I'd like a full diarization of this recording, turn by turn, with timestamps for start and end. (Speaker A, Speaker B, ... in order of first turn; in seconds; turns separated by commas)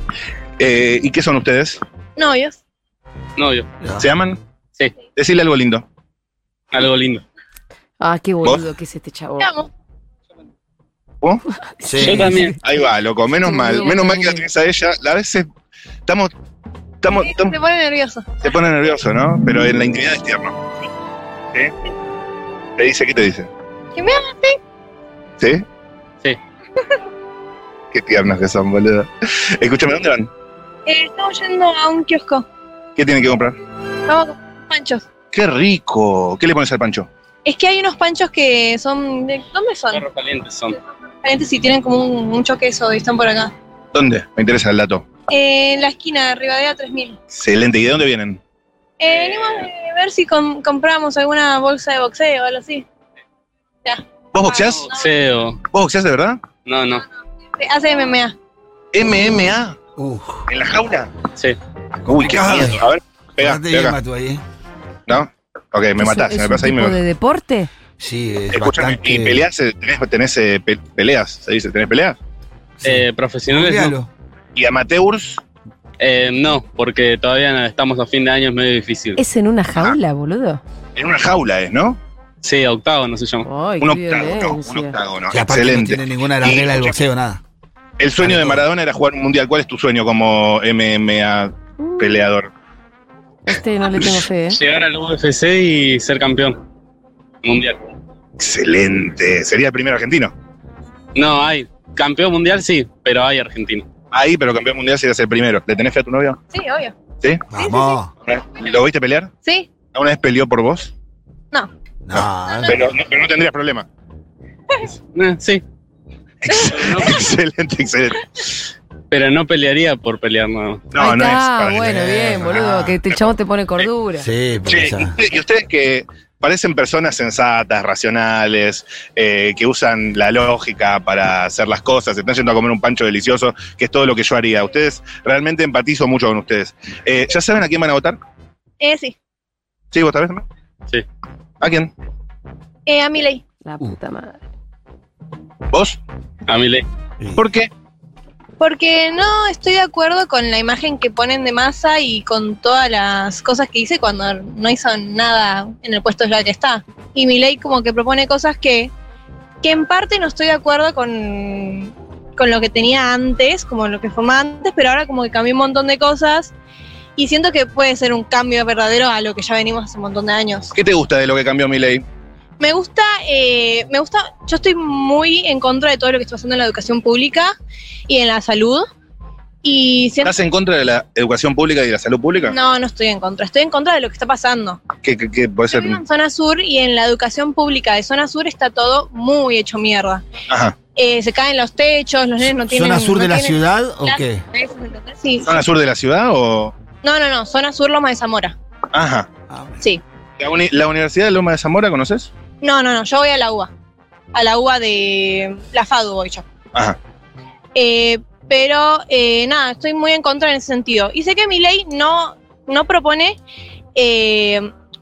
Speaker A: 0.6-1.8, Speaker B: 2.1-2.6, Speaker C: 3.4-3.7, Speaker D: 3.8-4.1, Speaker A: 4.0-4.4, Speaker A: 5.2-5.8, Speaker C: 6.7-7.2, Speaker E: 8.0-9.5, Speaker B: 9.4-9.7, Speaker D: 11.8-12.3, Speaker E: 12.0-12.5, Speaker C: 12.0-12.5, Speaker A: 12.6-15.5, Speaker E: 13.4-14.4, Speaker A: 16.1-16.3, Speaker A: 17.0-17.6, Speaker B: 17.1-18.3, Speaker A: 18.4-20.6, Speaker A: 22.8-23.5, Speaker B: 23.9-24.6, Speaker A: 27.9-30.3, Speaker B: 30.9-32.4, Speaker A: 33.0-33.6, Speaker B: 34.1-35.1, Speaker A: 35.3-37.1, Speaker B: 37.4-40.0, Speaker C: 39.9-40.8, Speaker B: 41.2-43.5, Speaker A: 43.9-45.1, Speaker B: 45.3-47.2, Speaker A: 47.3-48.4, Speaker B: 49.0-52.8, Speaker B: 53.8-55.0, Speaker A: 54.3-54.9, Speaker C: 54.9-55.6, Speaker A: 55.7-56.4, Speaker C: 56.6-57.0, Speaker B: 57.6-58.3, Speaker A: 58.9-59.8, Speaker D: 60.0-60.4, Speaker A: 60.5-61.1, Speaker A: 62.0-64.0, Speaker D: 62.1-62.8, Speaker D: 63.4-64.4, Speaker A: 65.1-67.0, Speaker E: 66.0-67.7, Speaker D: 68.0-69.4, Speaker A: 68.5-72.2, Speaker D: 72.8-74.1, Speaker C: 72.8-74.0, Speaker A: 74.5-75.4, Speaker C: 76.0-79.2, Speaker E: 79.2-80.6, Speaker A: 81.0-82.0, Speaker C: 82.4-83.5, Speaker E: 83.4-85.0, Speaker A: 83.8-86.9, Speaker D: 85.3-87.4, Speaker A: 88.0-92.5, Speaker D: 88.2-88.6, Speaker E: 91.8-92.2, Speaker E: 93.5-94.6, Speaker C: 94.5-96.6, Speaker C: 97.4-97.8, Speaker A: 98.4-100.3, Speaker C: 101.1-103.8, Speaker A: 104.1-106.4, Speaker B: 106.5-107.0, Speaker D: 107.5-108.1, Speaker B: 107.5-108.0, Speaker A: 108.2-109.3, Speaker B: 109.4-109.7, Speaker A: 109.9-110.9, Speaker D: 112.0-112.8, Speaker A: 112.2-113.8, Speaker C: 115.1-115.6, Speaker A: 116.4-118.2, Speaker C: 116.8-117.2, Speaker C: 119.1-120.8, Speaker A: 120.9-122.0, Speaker E: 121.0-124.3, Speaker D: 121.8-123.0, Speaker D: 124.2-125.2, Speaker A: 124.7-138.2, Speaker B: 138.8-139.2, Speaker A: 139.9-140.4, Speaker A: 141.6-141.9, Speaker B: 142.9-143.4, Speaker E: 143.6-144.4, Speaker A: 145.7-146.0, Speaker C: 146.5-146.8, Speaker A: 147.3-147.7, Speaker B: 148.6-158.9, Speaker B: 159.6-166.5, Speaker B: 167.2-170.7, Speaker A: 170.7-172.0, Speaker B: 172.6-177.5, Speaker B: 178.1-178.9, Speaker B: 179.6-180.3, Speaker A: 180.2-182.6, Speaker B: 182.4-184.8, Speaker A: 185.0-186.0, Speaker B: 185.7-190.2, Speaker A: 190.5-190.8, Speaker B: 190.9-195.5, Speaker D: 192.7-194.4, Speaker A: 195.4-196.8, Speaker B: 197.0-198.5, Speaker A: 198.9-199.3, Speaker D: 199.5-199.8, Speaker A: 200.4-202.3, Speaker B: 202.6-203.7, Speaker B: 204.3-206.4, Speaker B: 207.7-213.4, Speaker B: 213.9-214.7